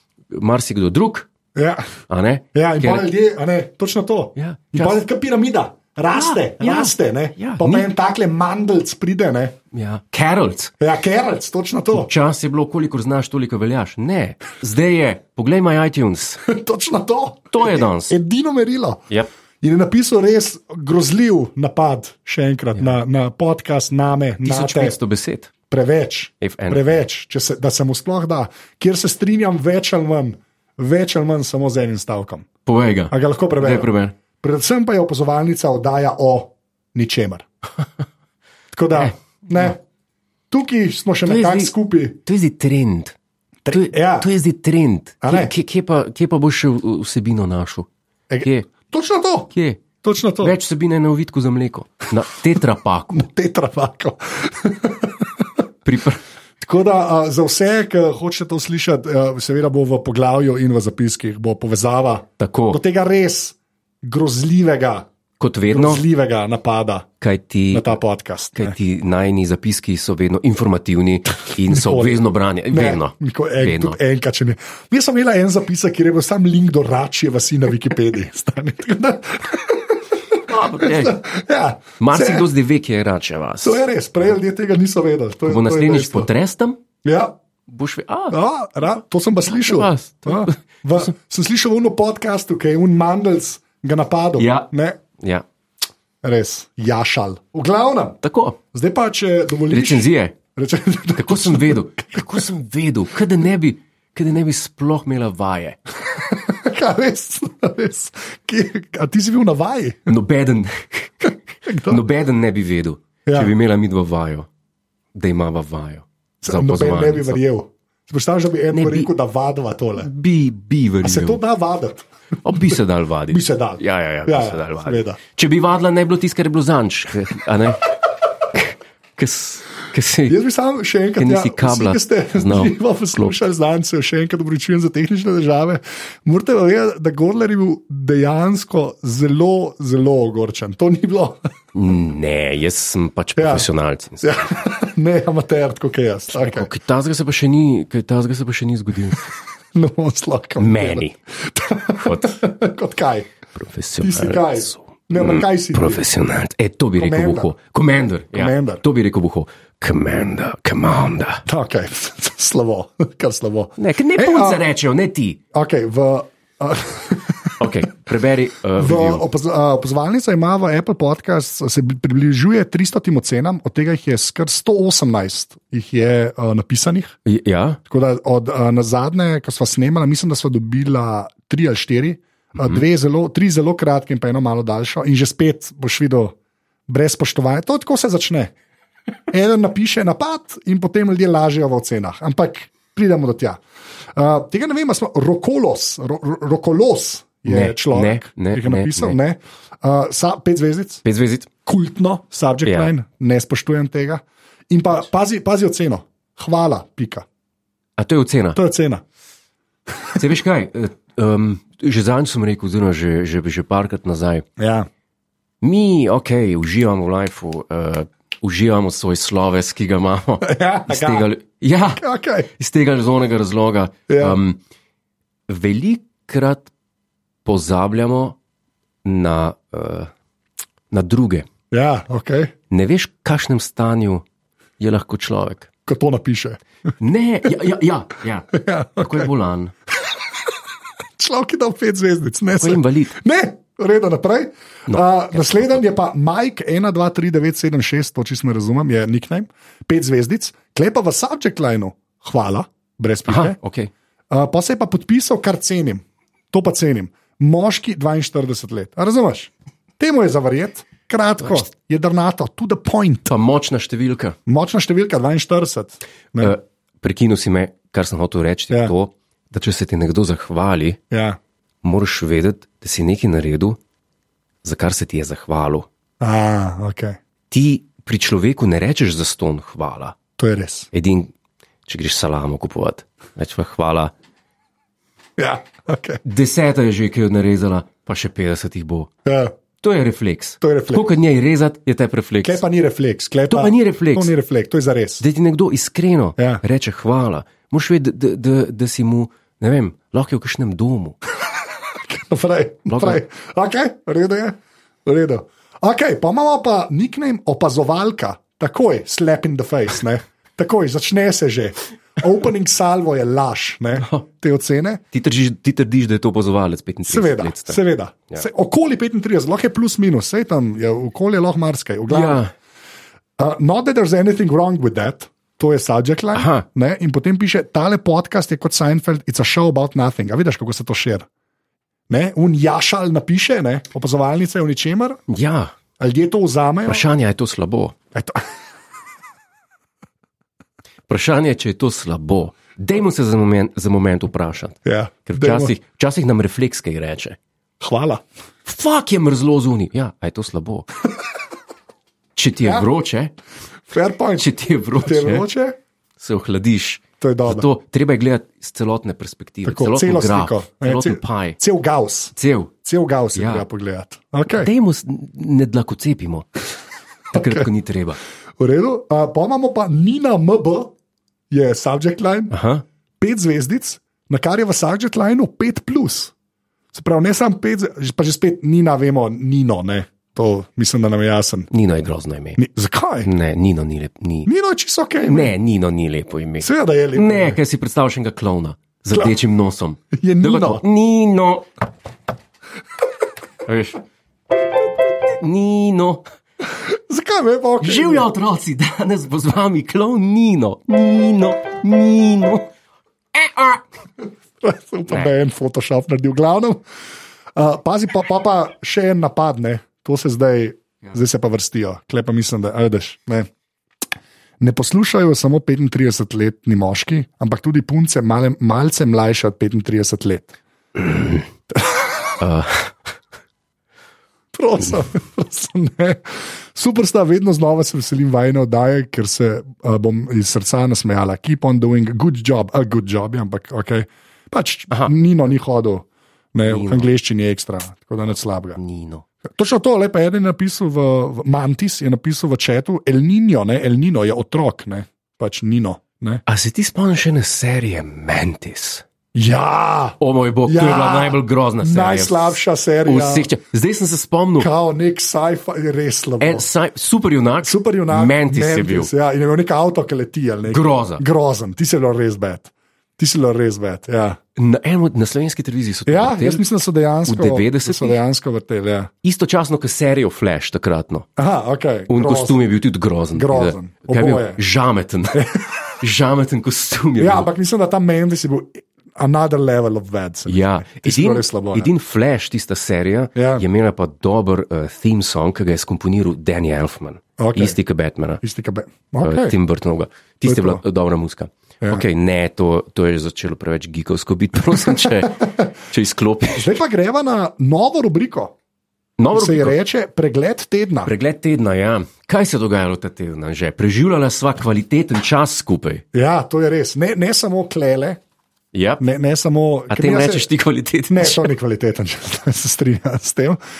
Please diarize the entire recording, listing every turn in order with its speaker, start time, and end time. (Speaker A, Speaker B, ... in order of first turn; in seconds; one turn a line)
Speaker A: 0.3-1.3
Speaker B: 1.6-1.9
Speaker A: 2.1-3.1
Speaker B: 2.5-9.6
Speaker A: 4.4-5.0
Speaker A: 6.1-7.9
Speaker A: 9.7-10.7
Speaker B: 10.8-12.1
Speaker A: 11.9-16.4
Speaker B: 16.5-19.0
Speaker A: 17.5-18.2
Speaker B: 19.6-25.0
Speaker A: 24.4-25.5
Speaker B: 25.7-32.5
Speaker A: 26.4-27.0
Speaker A: 32.7-34.1
Speaker B: 33.1-37.5
Speaker B: 38.7-39.8
Speaker A: 38.9-39.7
Speaker B: 40.5-42.2
Speaker A: 41.2-41.7
Speaker A: 42.2-43.2
Speaker B: 43.6-44.3
Speaker A: 43.7-47.9
Speaker B: 45.2-45.5
Speaker B: 48.3-49.5
Speaker A: 48.4-48.7
Speaker A: 49.5-49.8
Speaker B: 50.0-50.5
Speaker A: 50.4-53.3
Speaker B: 53.1-55.5
Speaker A: 55.9-56.2
Speaker B: 56.6-65.1
Speaker A: 62.4-62.8
Speaker A: 65.4-66.1
Speaker B: 65.7-67.1
Speaker A: 67.2-67.9
Speaker B: 67.7-68.8
Speaker A: 68.5-74.0
Speaker B: 71.7-80.0
Speaker A: 80.5-81.2
Speaker B: 80.8-82.5
Speaker A: 82.0-83.8
Speaker B: 83.6-86.3
Speaker A: 85.5-86.8
Speaker B: 87.0-87.3
Speaker A: 87.7-88.4
Speaker B: 88.3-95.0
Speaker A: 89.5-91.1
Speaker A: 94.4-95.5
Speaker B: 96.2-98.2
Speaker A: 98.2-98.6
Speaker B: 98.7-102.4
Speaker A: 99.7-100.4
Speaker A: 101.1-105.8
Speaker B: 106.1-110.1
Speaker A: 110.1-114.5
Speaker B: 111.7-112.0
Speaker B: 113.3-113.5
Speaker A: 115.1-117.4
Speaker B: 116.4-120.1
Speaker A: 118.7-119.1
Speaker A: 120.0-121.4
Speaker B: 121.0-125.2
Speaker A: 122.4-127.8
Speaker A: 128.5-130.4
Speaker B: 130.3-141.5
Speaker A: 131.2-133.3
Speaker A: 141.7-144.5
Speaker B: 143.4-143.7
Speaker B: 144.2-146.7
Speaker A: 146.3-149.3
Speaker B: 149.7-153.3
Speaker A: 150.6-151.2
Speaker A: 151.9-152.4
Speaker A: 153.6-161.4
Speaker B: 154.0-156.0
Speaker B: 157.0-157.5
Speaker B: 158.3-158.8
Speaker B: 161.5-164.6
Speaker A: 163.8-165.4
Speaker B: 165.5-167.8
Speaker A: 167.6-169.2
Speaker B: 168.8-177.2
Speaker A: 177.3-177.8
Speaker B: 177.9-186.3
Speaker B: 186.9-188.5
Speaker B: 189.3-193.6
Speaker B: 194.2-201.0
Speaker A: 197.5-199.2
Speaker A: 201.0-201.5
Speaker B: 201.7-207.3
Speaker A: 202.7-202.9
Speaker A: 208.0-208.6
Speaker B: 208.6-209.0
Speaker A: 210.1-214.4
Speaker B: 214.6-214.9
Speaker A: 215.6-224.6
Speaker B: 220.4-221.3
Speaker B: 222.0-222.5
Speaker B: 224.1-224.4
Speaker A: 225.5-226.7
Speaker A: 227.4-228.4
Speaker A: 229.0-230.1
Speaker A: 230.9-231.5
Speaker B: 231.7-232.5
Speaker A: 232.7-234.2
Speaker A: 234.8-235.7
Speaker B: 235.9-236.6
Speaker A: 237.0-239.7
Speaker B: 238.5-239.3
Speaker B: 241.2-253.6
Speaker A: 242.6-243.2
Speaker A: 244.9-245.8
Speaker A: 253.3-253.9
Speaker B: 254.3-263.3
Speaker A: 263.3-264.4
Speaker B: 264.5-266.6
Speaker A: 266.4-271.0
Speaker B: 271.1-271.4
Speaker A: 271.8-273.8
Speaker A: 274.6-275.9
Speaker B: 276.2-277.2
Speaker A: 277.5-280.2
Speaker B: 280.4-280.9
Speaker A: 280.9-281.3
Speaker A: 281.9-284.1
Speaker B: 285.4-286.2
Speaker A: 286.2-289.1
Speaker B: 289.3-289.5
Speaker A: 289.8-292.6
Speaker B: 290.6-291.1
Speaker B: 292.4-295.2
Speaker A: 293.5-294.3
Speaker A: 295.2-301.2
Speaker B: 301.9-315.0
Speaker A: 302.9-303.2
Speaker A: 314.0-314.2
Speaker A: 315.1-317.8
Speaker B: 317.1-322.4
Speaker A: 322.1-322.5
Speaker B: 323.4-331.3
Speaker A: 326.4-326.6
Speaker B: 332.1-335.2
Speaker A: 335.3-335.7
Speaker B: 336.0-337.1
Speaker A: 336.9-337.9
Speaker B: 338.1-338.4
Speaker A: 341.1-347.4
Speaker B: 344.9-345.8
Speaker B: 347.8-348.2
Speaker A: 348.7-350.9
Speaker A: 352.4-353.3
Speaker B: 352.6-352.9
Speaker B: 353.9-355.8
Speaker A: 354.4-355.5
Speaker A: 356.2-361.6
Speaker B: 357.2-357.7
Speaker B: 359.6-364.7
Speaker A: 362.4-362.7
Speaker A: 363.4-363.6
Speaker A: 364.5-366.5
Speaker A: 367.3-368.2
Speaker B: 367.3-367.7
Speaker B: 368.6-370.9
Speaker B: 371.5-372.5
Speaker A: 372.5-372.8
Speaker B: 373.2-376.3
Speaker B: 376.9-381.7
Speaker A: 381.7-382.6
Speaker B: 382.6-383.3
Speaker A: 383.2-384.5
Speaker B: 384.5-385.5
Speaker A: 385.2-391.7
Speaker B: 386.6-387.6
Speaker B: 390.1-390.8
Speaker A: 393.6-394.0
Speaker A: 395.4-396.2
Speaker B: 396.7-398.3
Speaker A: 397.8-402.7
Speaker A: 403.3-403.8
Speaker B: 404.6-406.8
Speaker B: 407.6-413.5
Speaker B: 414.6-420.6
Speaker A: 421.0-421.4
Speaker B: 421.8-422.3
Speaker A: 422.4-422.9
Speaker B: 424.5-438.8
Speaker A: 436.7-437.1
Speaker A: 438.8-439.2
Speaker B: 439.4-446.4
Speaker A: 446.5-449.0
Speaker B: 449.4-453.5
Speaker A: 450.2-454.7
Speaker B: 454.6-456.7
Speaker A: 456.4-459.1
Speaker B: 457.6-464.4
Speaker A: 460.7-461.2
Speaker A: 464.6-466.6
Speaker B: 466.1-469.1
Speaker A: 467.3-468.2
Speaker A: 469.2-471.3
Speaker B: 471.4-472.6
Speaker A: 472.1-477.5
Speaker B: 473.3-474.6
Speaker B: 475.4-475.7
Speaker B: 477.2-481.9
Speaker A: 480.5-488.4
Speaker B: 483.4-483.6
Speaker B: 487.4-487.8
Speaker B: 488.4-489.6
Speaker A: 489.2-496.7
Speaker B: 490.4-490.8
Speaker B: 495.0-495.5
Speaker B: 496.6-498.6
Speaker A: 499.2-499.8
Speaker B: 499.3-501.1
Speaker A: 501.1-506.0
Speaker B: 506.1-508.2
Speaker A: 508.7-509.0
Speaker B: 509.0-510.5
Speaker A: 509.9-511.5
Speaker B: 511.1-513.6